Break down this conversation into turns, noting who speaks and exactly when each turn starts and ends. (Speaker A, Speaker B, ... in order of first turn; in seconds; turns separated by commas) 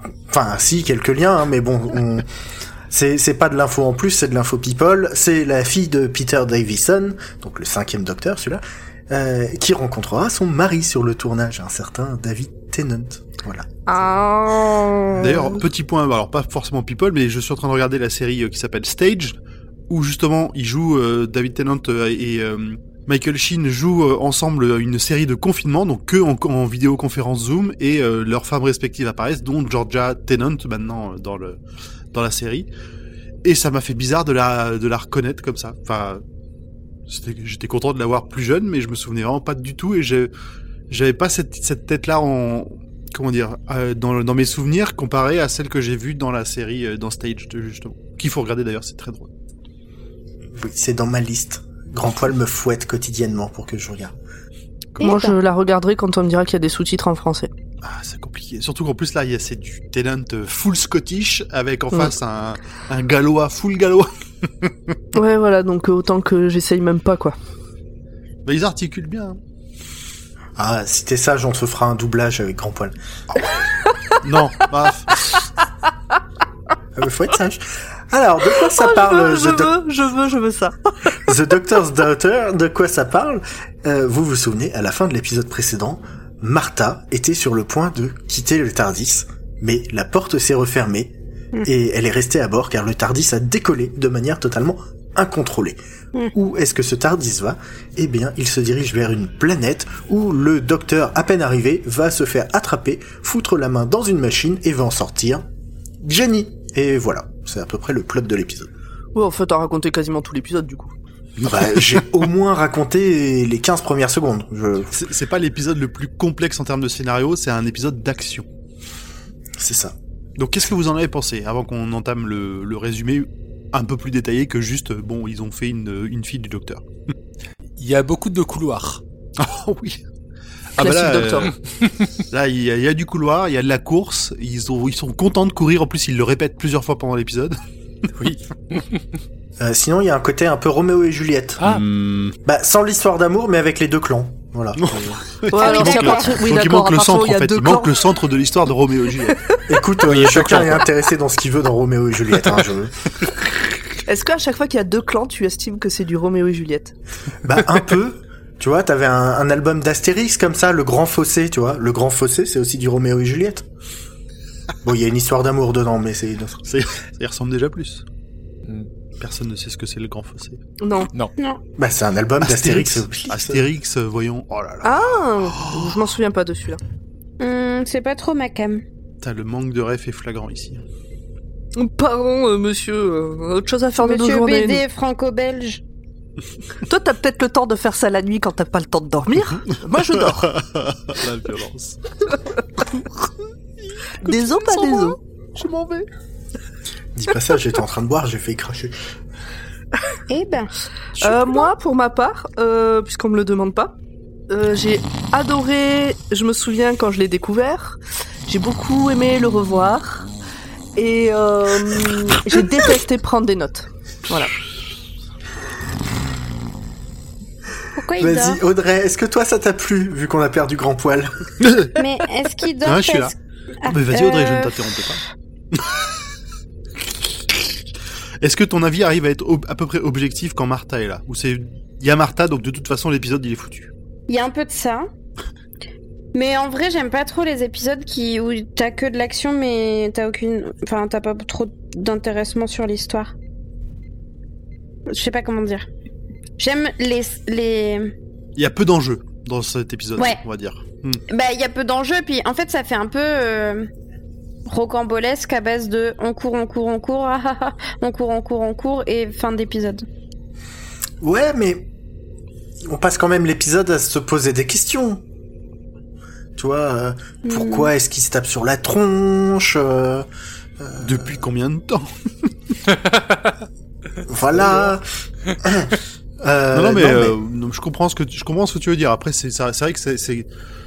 Speaker A: 0.3-2.3, Speaker A: 2.9-13.7, Speaker B: 13.9-15.6, Speaker C: 15.2-19.4, Speaker C: 19.9-31.6, Speaker C: 32.1-32.7, Speaker C: 33.4-36.2, Speaker C: 37.1-40.3, Speaker C: 40.9-49.3, Speaker A: 50.5-54.1, Speaker C: 55.0-55.2, Speaker D: 55.0-55.4, Speaker B: 55.0-57.5, Speaker C: 57.8-64.1, Speaker B: 65.1-67.4, Speaker C: 68.5-69.4, Speaker A: 70.6-73.0, Speaker C: 74.2-75.2, Speaker A: 77.0-79.8, Speaker B: 78.7-81.3, Speaker A: 81.2-95.8, Speaker A: 96.3-105.5, Speaker A: 106.0-108.7, Speaker B: 109.2-110.9, Speaker C: 111.4-112.0, Speaker A: 111.4-114.9, Speaker C: 114.9-118.5, Speaker A: 119.6-120.0, Speaker C: 120.4-126.8, Speaker E: 127.8-129.0, Speaker C: 129.4-130.0, Speaker C: 130.8-131.6, Speaker B: 130.8-131.5, Speaker C: 132.3-137.6, Speaker E: 138.2-139.0, Speaker A: 139.6-141.6, Speaker C: 141.6-142.3, Speaker A: 142.4-145.2, Speaker C: 144.8-149.4, Speaker B: 145.5-147.9, Speaker D: 145.6-146.4, Speaker A: 149.7-152.9, Speaker E: 150.1-150.9, Speaker B: 154.1-156.9, Speaker A: 157.4-163.7, Speaker A: 164.8-166.6, Speaker C: 166.7-168.0, Speaker C: 169.2-170.6, Speaker B: 170.8-171.1, Speaker A: 171.8-173.7, Speaker C: 172.4-176.0, Speaker B: 174.8-176.8, Speaker D: 177.4-178.8, Speaker C: 179.2-180.8, Speaker B: 181.8-184.8, Speaker D: 184.0-185.8, Speaker B: 186.9-190.6, Speaker C: 190.5-192.1, Speaker C: 194.0-196.1, Speaker B: 194.2-195.2, Speaker A: 197.2-198.9, Speaker D: 200.3-200.7, Speaker C: 201.2-201.6, Speaker B: 201.2-204.0, Speaker B: 204.5-210.3, Speaker B: 211.0-214.5, Speaker D: 217.9-218.6, Speaker A: 218.2-221.4, Speaker C: 221.6-222.0, Speaker D: 222.0-224.8, Speaker C: 222.8-225.9, Speaker C: 228.4-233.9, Speaker D: 234.3-235.1, Speaker D: 236.3-243.3, Speaker D: 245.1-245.9, Speaker D: 246.6-248.1, Speaker C: 248.6-251.2, Speaker D: 251.3-253.9, Speaker D: 254.7-260.1, Speaker A: 261.2-261.9, Speaker A: 262.9-265.2, Speaker A: 266.6-270.3, Speaker D: 267.5-267.9, Speaker A: 270.8-271.4, Speaker C: 271.0-272.7, Speaker E: 272.9-273.6, Speaker A: 274.3-275.0, Speaker C: 274.6-274.9, Speaker A: 275.6-277.4, Speaker C: 276.7-280.5